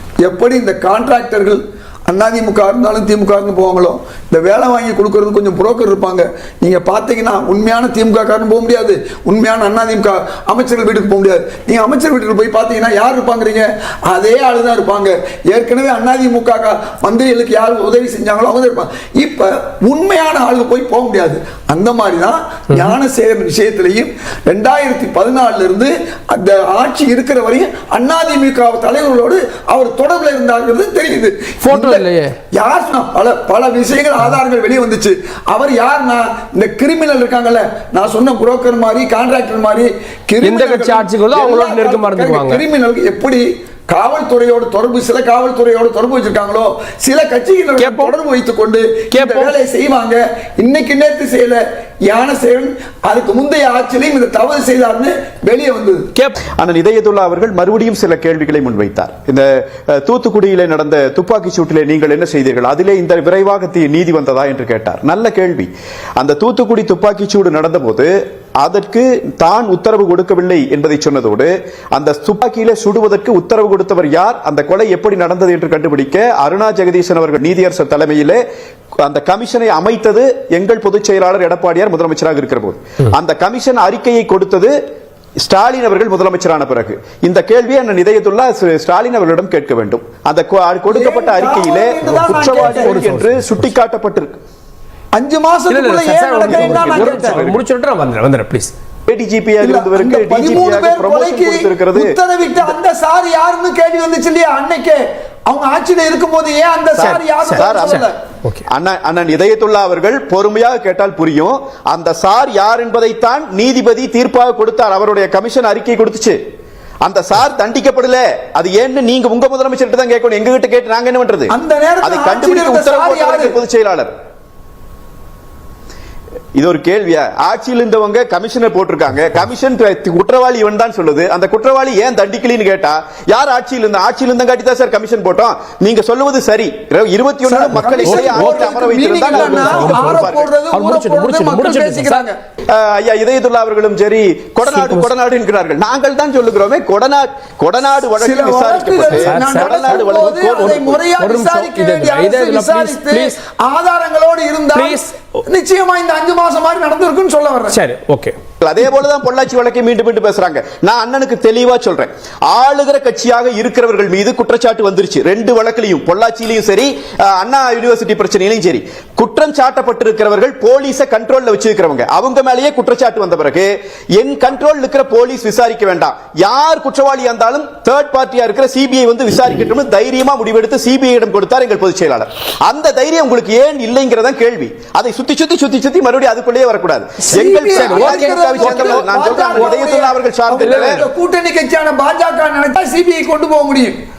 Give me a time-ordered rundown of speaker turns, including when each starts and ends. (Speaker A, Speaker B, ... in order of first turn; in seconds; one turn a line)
Speaker A: 0.2-56.0
Speaker B: 31.6-32.3
Speaker B: 40.4-42.6
Speaker B: 47.8-48.1
Speaker B: 49.1-49.5
Speaker C: 56.6-78.4
Speaker C: 79.0-84.7
Speaker C: 85.4-94.4
Speaker A: 90.9-93.0
Speaker B: 92.1-93.6
Speaker A: 95.1-97.4
Speaker B: 95.7-98.7
Speaker C: 96.4-97.6
Speaker C: 99.1-102.2
Speaker A: 99.6-108.1
Speaker B: 107.0-108.6
Speaker C: 107.0-108.0
Speaker C: 108.7-116.4
Speaker C: 117.0-124.1
Speaker A: 121.5-123.6
Speaker C: 126.5-140.5
Speaker A: 137.4-142.3
Speaker B: 138.0-142.3
Speaker C: 142.7-151.0
Speaker B: 144.7-145.1
Speaker A: 148.2-157.8
Speaker B: 149.1-153.3
Speaker B: 154.7-155.1
Speaker B: 157.7-158.3
Speaker C: 158.6-191.0
Speaker A: 187.3-194.0
Speaker B: 187.7-189.8
Speaker B: 190.6-191.0